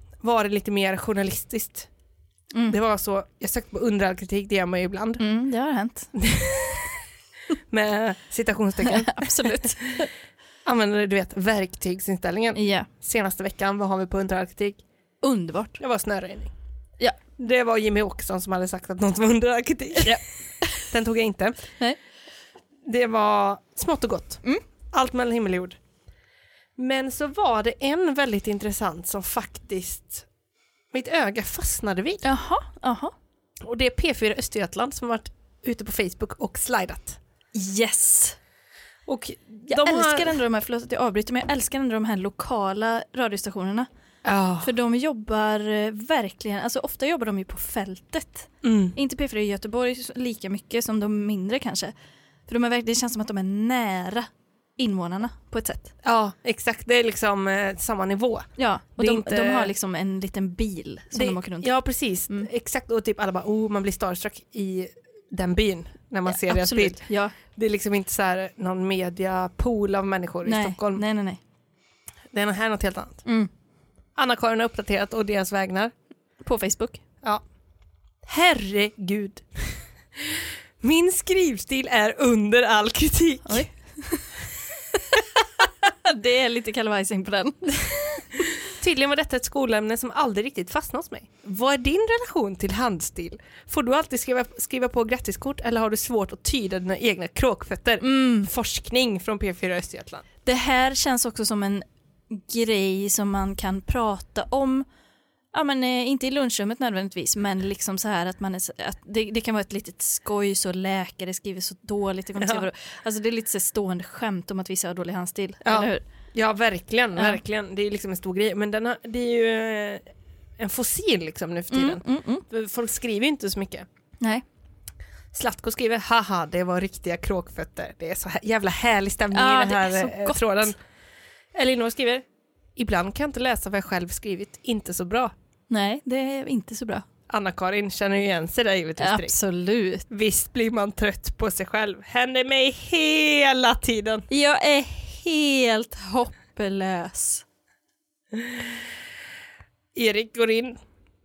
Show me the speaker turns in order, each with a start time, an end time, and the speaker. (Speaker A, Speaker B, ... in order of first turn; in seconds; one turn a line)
Speaker A: 0.2-1.9
Speaker B: 2.5-2.8
Speaker A: 2.7-5.2
Speaker B: 5.2-6.1
Speaker A: 6.1-7.0
Speaker A: 7.7-9.8
Speaker B: 8.8-10.1
Speaker A: 10.6-14.8
Speaker B: 12.5-12.9
Speaker B: 15.2-15.8
Speaker A: 15.8-16.5
Speaker A: 17.4-20.2
Speaker B: 20.0-20.9
Speaker A: 20.9-21.6
Speaker A: 22.8-24.4
Speaker A: 24.9-25.8
Speaker A: 26.8-30.3
Speaker A: 30.9-32.2
Speaker B: 32.2-33.1
Speaker A: 33.6-37.2
Speaker B: 37.5-38.4
Speaker A: 39.0-40.4
Speaker B: 39.7-43.9
Speaker A: 44.2-44.7
Speaker B: 44.6-51.9
Speaker A: 48.6-49.0
Speaker B: 52.5-55.9
Speaker A: 56.0-59.7
Speaker B: 58.6-61.7
Speaker A: 61.1-71.0
Speaker B: 66.2-67.3
Speaker B: 70.4-71.4
Speaker A: 72.3-73.2
Speaker B: 73.2-73.5
Speaker A: 74.2-75.9
Speaker B: 76.4-77.0
Speaker A: 78.2-83.7
Speaker B: 83.4-84.3
Speaker B: 84.9-88.6
Speaker A: 88.6-100.2
Speaker B: 98.0-98.5
Speaker B: 100.5-104.8
Speaker B: 105.5-116.0
Speaker A: 112.4-112.7
Speaker A: 115.7-120.0
Speaker A: 120.6-123.8
Speaker B: 121.7-122.4
Speaker A: 125.3-130.7
Speaker B: 129.3-130.7
Speaker A: 131.5-132.2
Speaker A: 132.8-135.3
Speaker B: 135.7-137.0
Speaker A: 137.3-139.3
Speaker B: 139.0-140.1
Speaker A: 140.1-144.2
Speaker B: 144.3-147.4
Speaker A: 148.3-148.6
Speaker A: 149.9-150.8